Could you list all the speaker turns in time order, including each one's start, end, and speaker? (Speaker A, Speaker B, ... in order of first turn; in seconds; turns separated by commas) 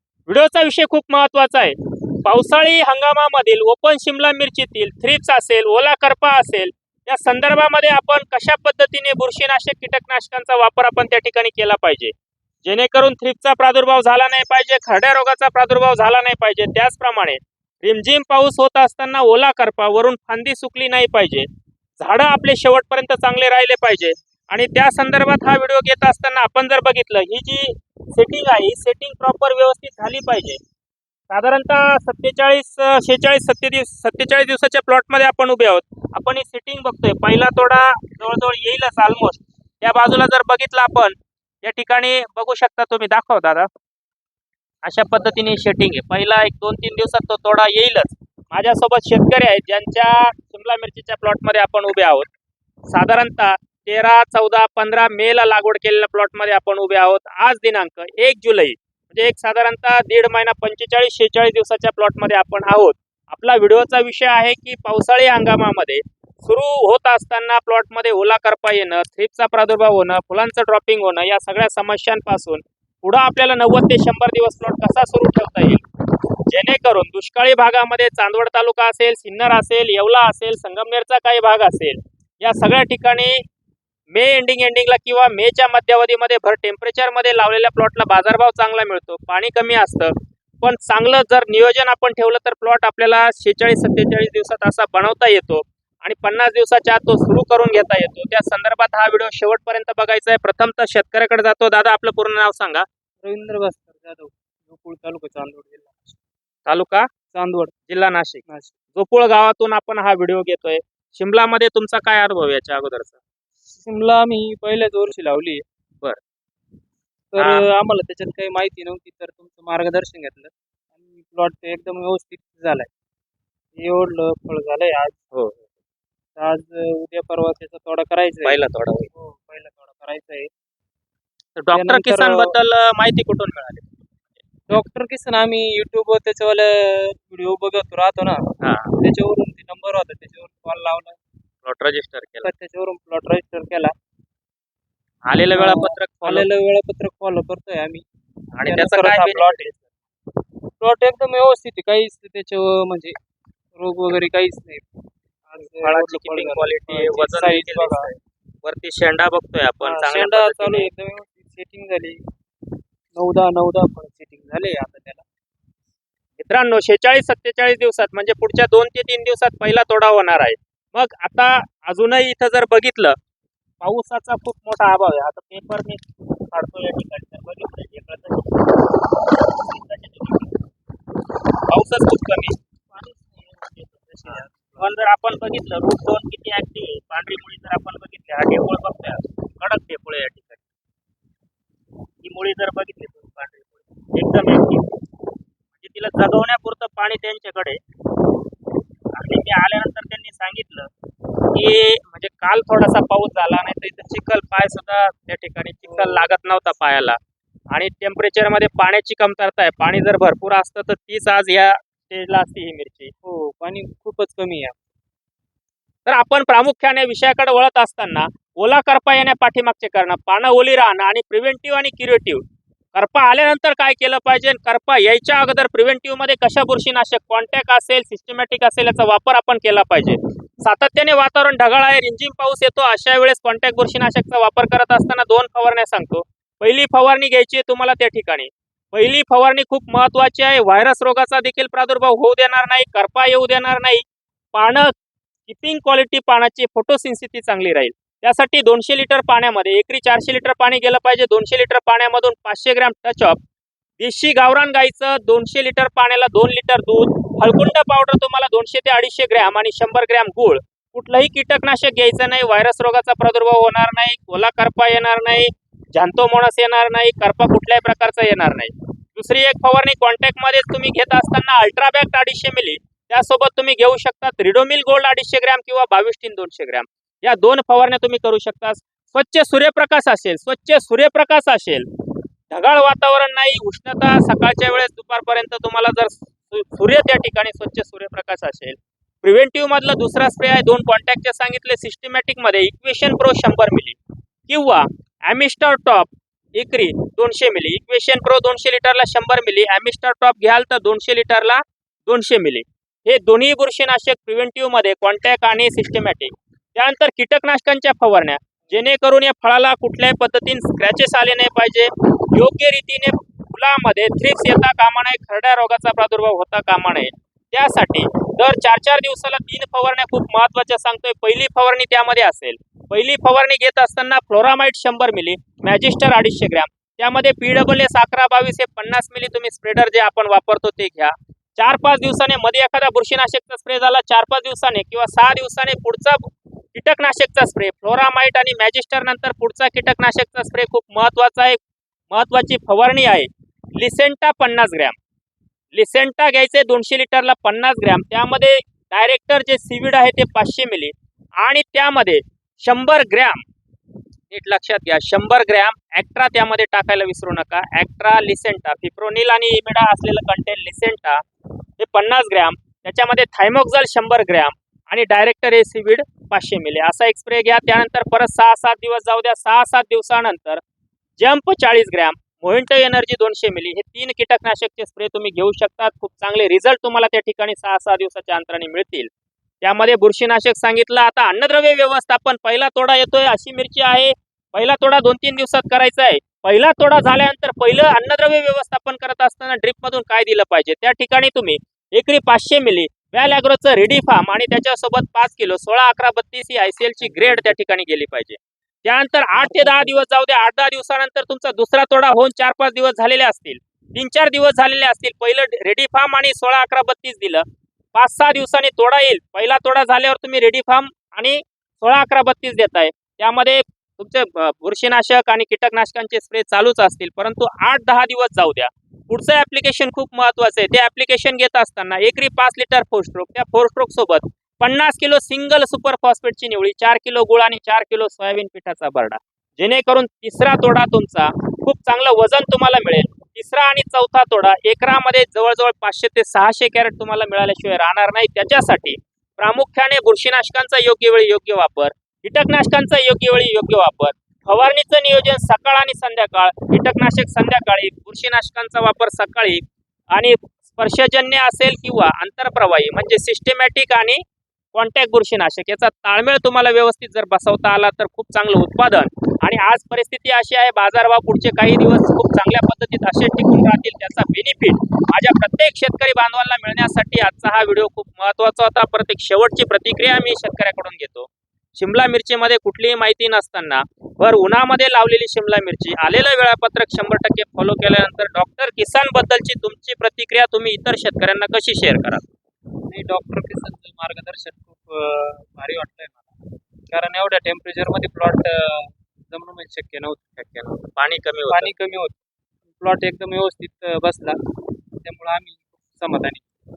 Speaker A: 0.3-12.1, Speaker A: 12.6-21.5, Speaker A: 22.0-30.6, Speaker A: 31.3-43.7, Speaker A: 44.8-52.3, Speaker A: 52.9-75.8, Speaker A: 76.5-83.4, Speaker A: 84.1-102.9, Speaker B: 103.2-106.2, Speaker A: 106.7-107.1, Speaker B: 107.3-107.7, Speaker A: 107.9-113.2, Speaker B: 108.5-108.7, Speaker B: 113.8-115.6, Speaker B: 117.3-122.9, Speaker A: 117.4-117.7, Speaker B: 123.8-125.2, Speaker A: 125.3-125.6, Speaker B: 126.4-130.5, Speaker A: 128.4-129.1, Speaker A: 131.6-133.9, Speaker B: 131.7-132.5, Speaker B: 134.7-141.2, Speaker A: 138.6-138.9, Speaker A: 141.6-142.5, Speaker B: 142.4-143.9, Speaker A: 145.3-146.5, Speaker B: 145.5-148.0, Speaker A: 148.6-149.7, Speaker B: 148.6-149.8, Speaker B: 150.8-153.2, Speaker B: 153.8-154.8, Speaker B: 155.5-158.1, Speaker A: 155.8-160.9, Speaker B: 159.8-162.2, Speaker B: 163.1-165.2, Speaker A: 166.4-173.2, Speaker A: 173.8-180.7, Speaker A: 181.7-190.6, Speaker B: 184.3-184.8, Speaker A: 192.2-195.0, Speaker A: 195.8-197.8, Speaker A: 199.1-200.9, Speaker A: 201.5-207.2, Speaker B: 205.9-206.3, Speaker A: 207.7-213.1, Speaker B: 213.2-214.8, Speaker A: 216.1-222.4, Speaker A: 222.9-244.9, Speaker A: 245.5-253.4, Speaker A: 254.0-281.9, Speaker A: 282.5-341.6, Speaker A: 342.1-345.0, Speaker A: 345.7-353.4, Speaker A: 354.3-361.2, Speaker A: 361.8-370.6, Speaker A: 371.2-379.1, Speaker A: 379.6-482.2, Speaker B: 397.0-397.5, Speaker B: 399.4-400.0, Speaker B: 482.9-486.3, Speaker B: 486.9-490.3, Speaker A: 490.4-491.7, Speaker B: 491.5-492.2, Speaker B: 492.8-496.4